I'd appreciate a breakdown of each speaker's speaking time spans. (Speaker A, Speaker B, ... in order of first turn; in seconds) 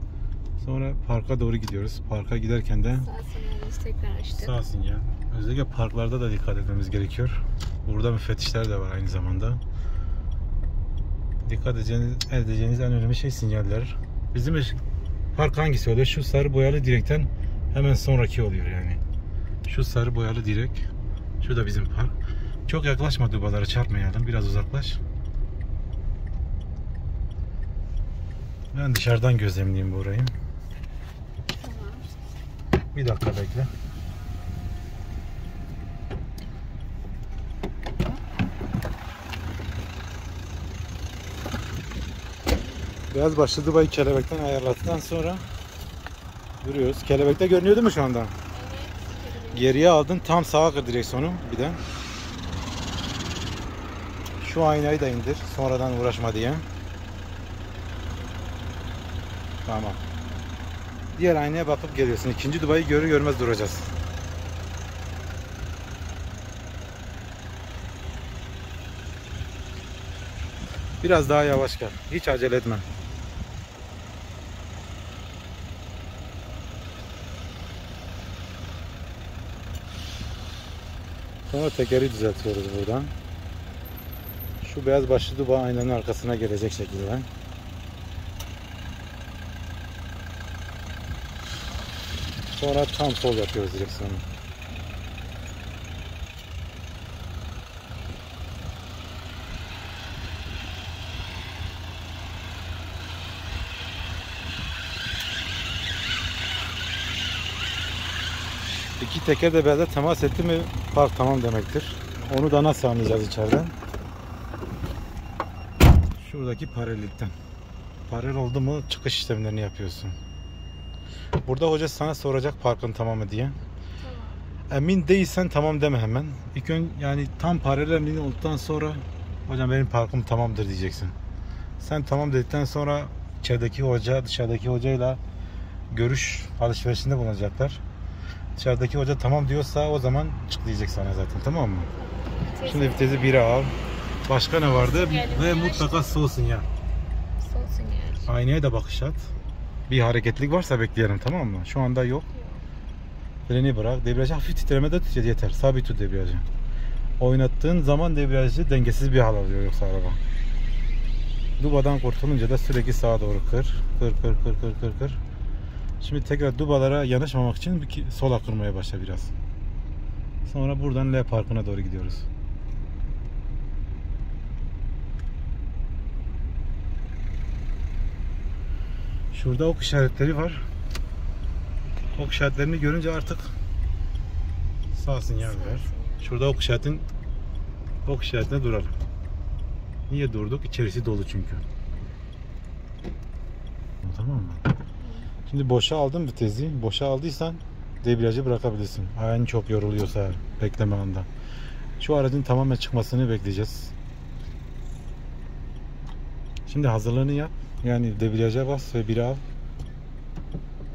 Speaker A: 0.6-3.1, 4.4-9.6, 11.4-14.8, 15.3-19.0, 19.7-20.9, 21.4-22.1, 22.7-25.0, 28.7-30.3, 32.9-33.7, 43.1-45.4, 46.6-48.3, 49.5-51.8, 54.4-56.6, 59.6-60.0, 61.1-63.9, 71.0-72.9, 81.5-83.1, 84.6-87.3, 92.5-94.3, 109.0-113.8, 116.2-117.3, 118.1-120.2, 121.5-123.6, 124.7-131.2, 131.8-135.2, 135.9-137.8, 138.6-141.9, 142.7-143.8, 144.3-146.7, 148.3-149.3, 149.9-152.3, 153.5-156.5, 157.2-160.2, 161.6-165.2, 166.0-169.3, 170.4-172.3, 179.3-180.7, 182.2-183.5, 184.9-187.1, 188.1-189.0, 190.1-191.6, 194.0-194.6, 195.5-201.3, 202.0-203.9, 206.7-209.4
Speaker B: 2.9-4.5, 31.6-32.1, 48.5-49.9, 58.3-58.7, 124.0-124.5, 141.9-143.4, 144.7-146.2, 147.4-148.3, 152.3-152.7, 185.4-186.3, 195.0-195.3